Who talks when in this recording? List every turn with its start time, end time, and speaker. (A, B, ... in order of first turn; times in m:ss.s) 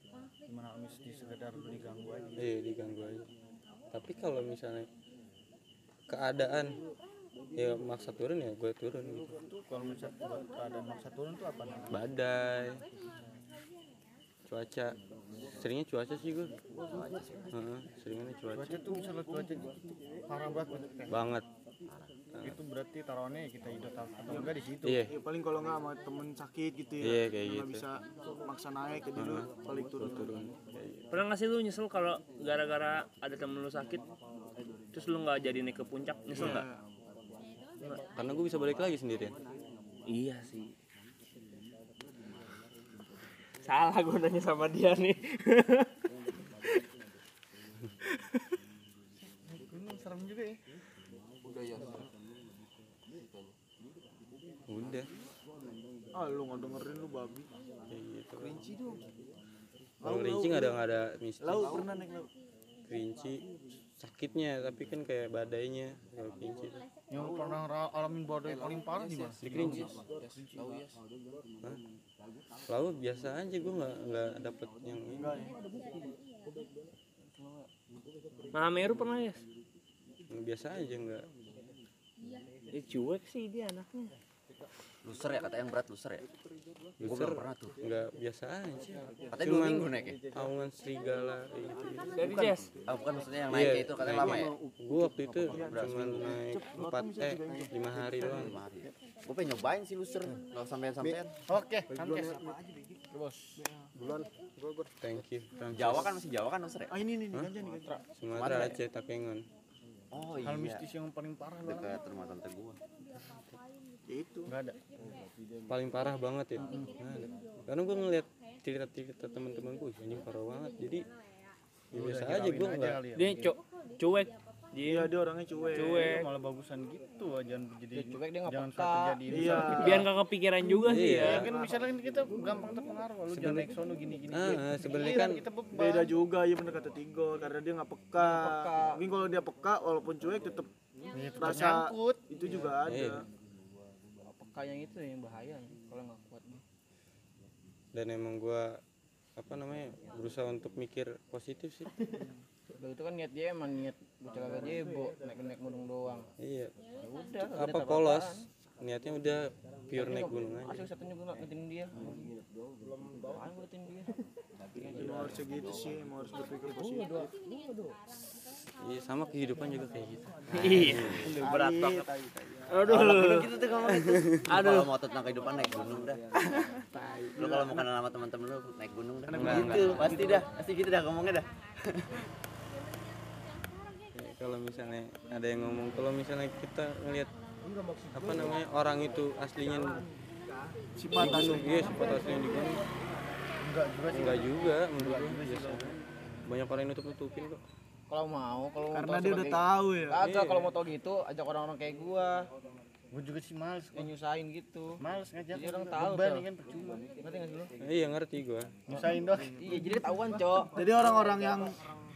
0:00.5-0:02.3 A
0:02.4-0:03.3 B
0:03.9-0:04.9 B
0:06.1-0:06.8 B
0:07.6-0:09.4 B
0:09.7-0:12.0 A
0:11.9-0:12.8 B
0:14.5-0:15.0 B
0:15.6-0:16.5 B
0:16.9-0:17.5 C
0:17.5-0:18.8 B
0:18.5-0:19.7 A
0:20.3-0:21.3 A
0:21.1-0:21.4 B
0:22.4-0:25.1 A
0:24.3-0:24.5 D
0:24.8-0:25.1 B
0:25.1-0:30.4 D
0:27.0-0:27.9 B
0:29.1-0:31.0 B
0:31.1-0:34.0 E
0:34.9-0:36.7 E
0:36.3-0:36.8 D
0:36.4-0:36.6 B
0:38.2-0:39.4 B
0:40.1-0:40.7 E
0:43.6-0:46.1 E
0:49.5-0:50.6 A
0:54.7-0:55.1 B
0:56.2-0:57.5 D
0:57.9-0:58.6 B
0:58.4-0:59.0 D
1:00.0-1:00.8 D
1:00.0-1:01.9 B
1:01.4-1:02.3 D
1:02.9-1:03.4 B
1:04.0-1:06.8 B
1:07.1-1:09.9 A
1:08.5-1:11.0 F
1:09.4-1:09.9 B
1:12.7-1:15.4 B
1:15.2-1:15.5 D
1:17.3-1:17.7 F
1:18.5-1:19.4 E
1:20.3-1:21.3 B
1:22.7-1:24.1 E
1:25.0-1:26.2 C
1:27.0-1:32.6 B
1:27.0-1:27.8 C
1:29.3-1:30.2 C
1:30.2-1:30.5 D
1:32.2-1:32.7 E
1:32.9-1:34.5 C
1:33.5-1:38.6 B
1:35.5-1:36.4 C
1:35.5-1:38.5 D
1:38.2-1:41.3 C
1:41.0-1:42.4 A
1:41.9-1:42.9 D
1:43.1-1:43.6 F
1:43.6-1:44.2 D
1:45.0-1:46.1 B
1:45.7-1:46.9 C
1:46.9-1:48.0 D
1:48.2-1:49.4 B
1:48.4-1:48.8 C
1:50.1-1:50.9 C
1:50.4-1:52.0 A
1:51.6-1:52.8 C
1:54.1-1:54.5 D
1:54.5-1:54.8 A
1:55.7-2:01.0 B
1:56.6-1:56.9 A
2:01.9-2:03.0 B
2:01.9-2:03.5 A
2:03.2-2:05.1 E
2:04.9-2:06.2 D
2:05.7-2:06.3 E
2:05.9-2:10.1 A
2:07.9-2:10.0 F
2:09.3-2:10.1 D
2:09.8-2:11.5 E
2:10.8-2:11.5 B
2:11.1-2:16.1 A
2:13.3-2:13.7 B
2:14.3-2:15.4 B
2:15.7-2:20.7 D
2:18.2-2:19.0 F
2:21.1-2:22.2 A
2:21.4-2:23.3 D
2:22.8-2:23.2 B
2:24.3-2:26.6 F
2:27.9-2:28.8 B
2:29.4-2:31.9 B
2:32.8-2:36.3 F
2:36.4-2:36.7 B
2:37.1-2:38.4 F
2:37.5-2:40.8 B
2:40.0-2:41.9 F
2:43.2-2:44.1 F
2:44.8-2:45.3 F
2:44.9-2:47.2 D
2:48.8-2:51.3 B
2:50.6-2:51.3 C
2:50.6-2:51.2 E
2:51.2-2:52.3 D
2:51.6-2:52.0 F
2:52.7-2:53.5 E
2:52.9-2:56.2 C
2:53.9-2:54.4 B
2:54.5-2:54.9 E
2:57.4-3:02.2 C
2:59.3-3:00.2 B
2:59.3-3:00.5 D
2:59.4-3:00.0 F
3:04.2-3:07.3 B
3:08.1-3:10.1 B
3:09.6-3:10.1 D
3:11.0-3:12.9 D
3:11.1-3:12.8 B
3:11.6-3:12.2 A
3:13.6-3:16.0 A
3:14.1-3:17.6 B
3:18.1-3:22.5 F
3:18.9-3:20.2 D
3:20.2-3:20.7 B
3:23.1-3:24.1 A
3:23.9-3:25.0 F
3:25.0-3:27.0 A
3:25.5-3:26.5 F
3:27.2-3:27.7 F
3:27.8-3:28.8 B
3:28.9-3:29.8 A
3:29.4-3:30.8 F
3:30.7-3:31.8 D